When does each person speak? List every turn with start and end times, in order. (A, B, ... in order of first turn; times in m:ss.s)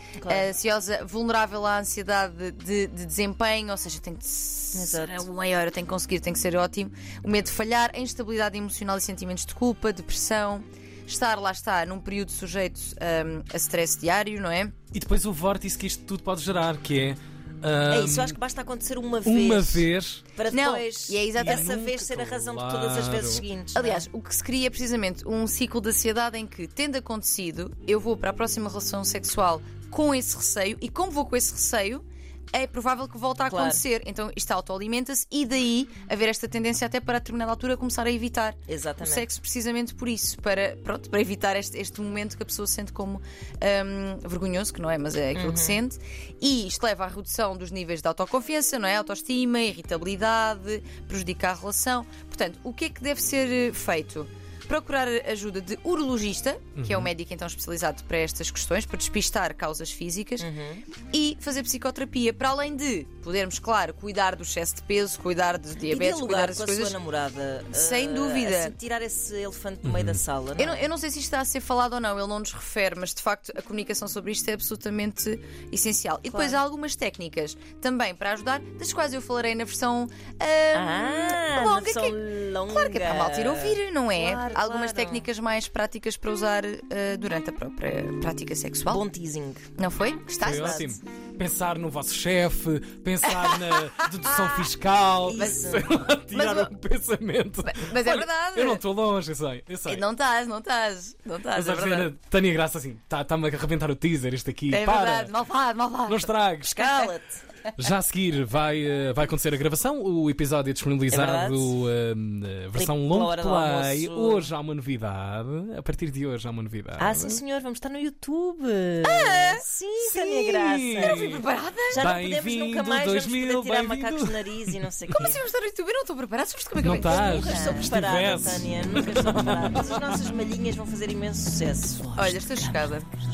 0:00.2-0:00.5 A
0:00.3-0:14.8 B
0:04.7-0:05.3 A
0:14.9-0:18.4 C
0:17.9-0:24.1 A
0:19.2-0:20.2 C
0:20.5-0:21.7 B
0:21.4-0:23.4 C
0:23.7-1:00.5 B
0:33.4-0:33.8 A
0:38.7-0:39.3 A
0:45.3-0:45.8 A
0:56.8-0:57.1 C
1:00.4-1:00.8 A
1:01.1-1:07.0 B
1:05.8-1:10.8 A
1:07.7-1:08.8 B
1:09.8-1:10.2 C
1:10.6-1:29.1 B
1:16.3-1:16.6 A
1:20.7-1:25.3 A
1:28.9-1:29.7 A
1:29.8-1:31.0 B
1:30.4-1:40.0 C
1:30.5-1:30.8 A
1:33.2-1:34.7 B
1:35.2-1:36.0 A
1:36.3-1:36.7 B
1:37.6-1:38.8 B
1:39.9-1:42.1 B
1:41.5-1:45.3 C
1:44.7-1:47.1 B
1:46.1-1:46.8 C
1:46.6-1:47.4 A
1:47.8-1:57.4 C
1:51.1-1:51.8 A
1:52.7-1:54.5 A
1:57.0-2:01.2 A
1:59.0-1:59.6 B
2:00.0-2:04.4 C
2:01.0-2:02.1 B
2:01.9-2:05.4 A
2:05.2-2:07.9 B
2:06.8-2:09.8 C
2:06.9-2:12.9 A
2:12.2-2:13.1 B